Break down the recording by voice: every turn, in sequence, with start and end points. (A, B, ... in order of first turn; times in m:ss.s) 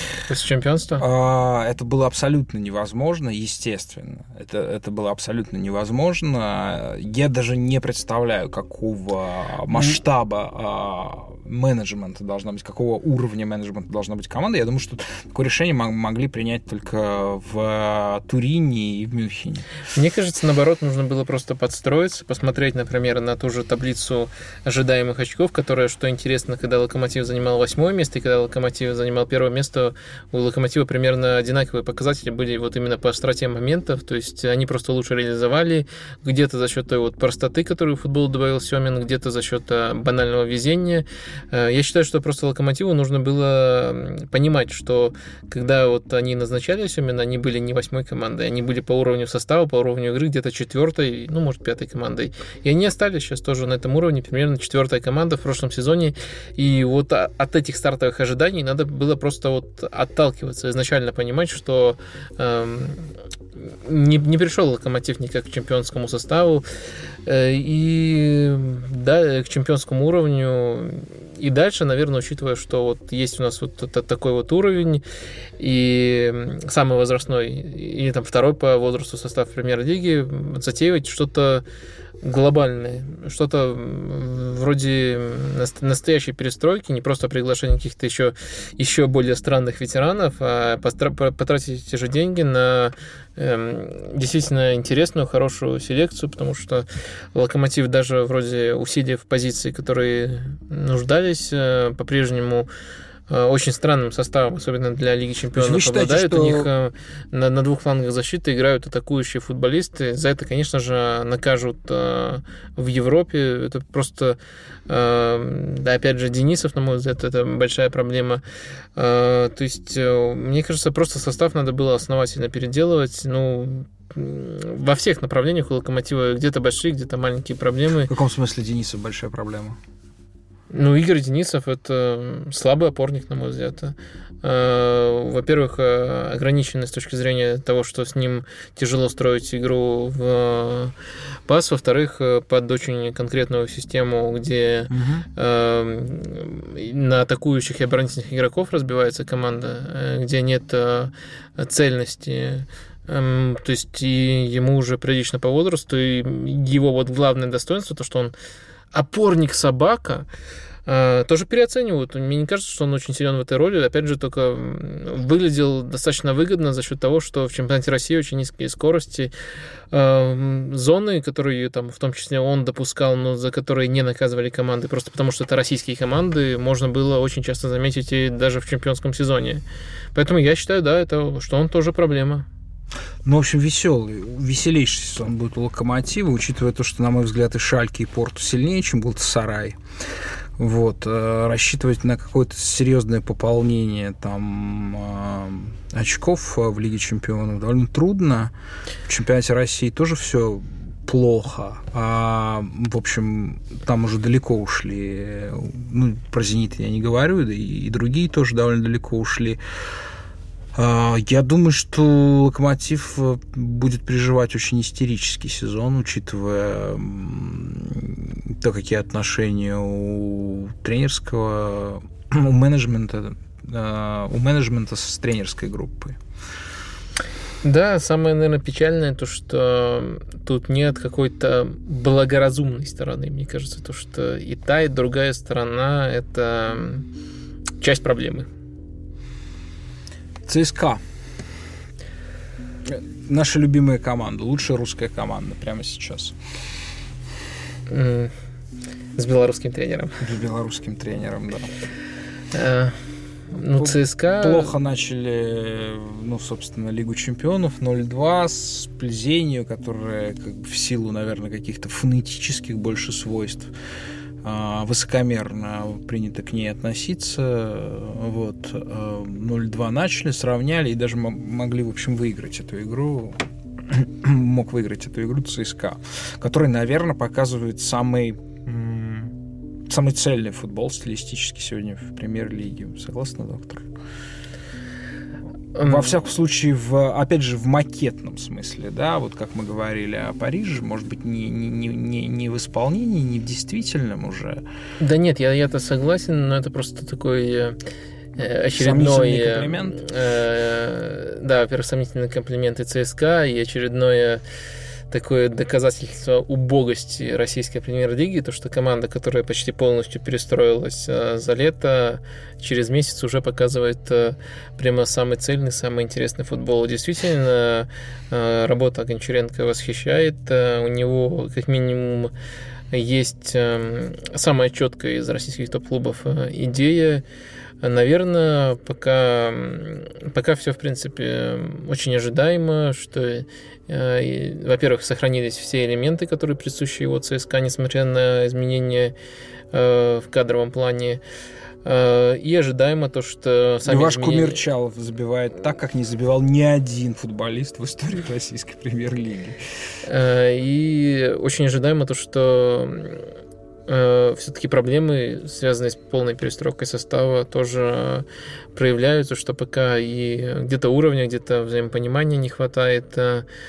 0:00.2-0:01.0 A
0:01.0-0:19.6 B
0:19.9-1:03.1 A
1:03.6-1:06.6 A
1:07.2-1:15.0 A
1:15.6-1:21.6 A
1:22.2-1:42.7 A
1:43.3-1:58.4 A
1:45.5-1:46.7 B
1:59.0-2:08.1 A
2:08.1-2:09.8 B
2:10.7-2:20.9 A
2:21.5-2:38.3 A
2:24.9-2:25.3 B
2:38.9-2:40.3 A
2:40.8-2:49.3 A
2:49.9-2:59.6 A
3:00.1-3:02.5 A
3:03.2-3:09.8 B
3:10.6-3:18.5 B
3:19.1-3:29.6 B
3:30.7-3:46.2 B
3:47.6-3:57.1 A
3:57.8-3:58.5 A
4:00.4-4:01.0 B
4:02.8-4:06.4 B
4:07.9-4:08.3 A
4:09.2-4:10.2 A
4:10.2-4:11.7 B
4:12.5-4:13.0 A
4:13.5-4:14.7 A
4:13.8-4:23.7 B
4:24.4-4:39.4 B
4:39.9-4:43.9 B
4:45.8-4:46.1 A
4:45.8-4:54.6 B
4:55.0-4:57.8 A
4:58.4-5:04.4 A
4:58.7-5:00.0 B
5:05.1-5:22.3 A
5:22.9-5:27.2 A
5:27.8-5:39.1 A
5:39.7-5:41.2 A
5:41.8-5:44.6 A
5:43.8-5:49.6 B
5:50.0-5:53.3 A
5:53.9-6:03.4 A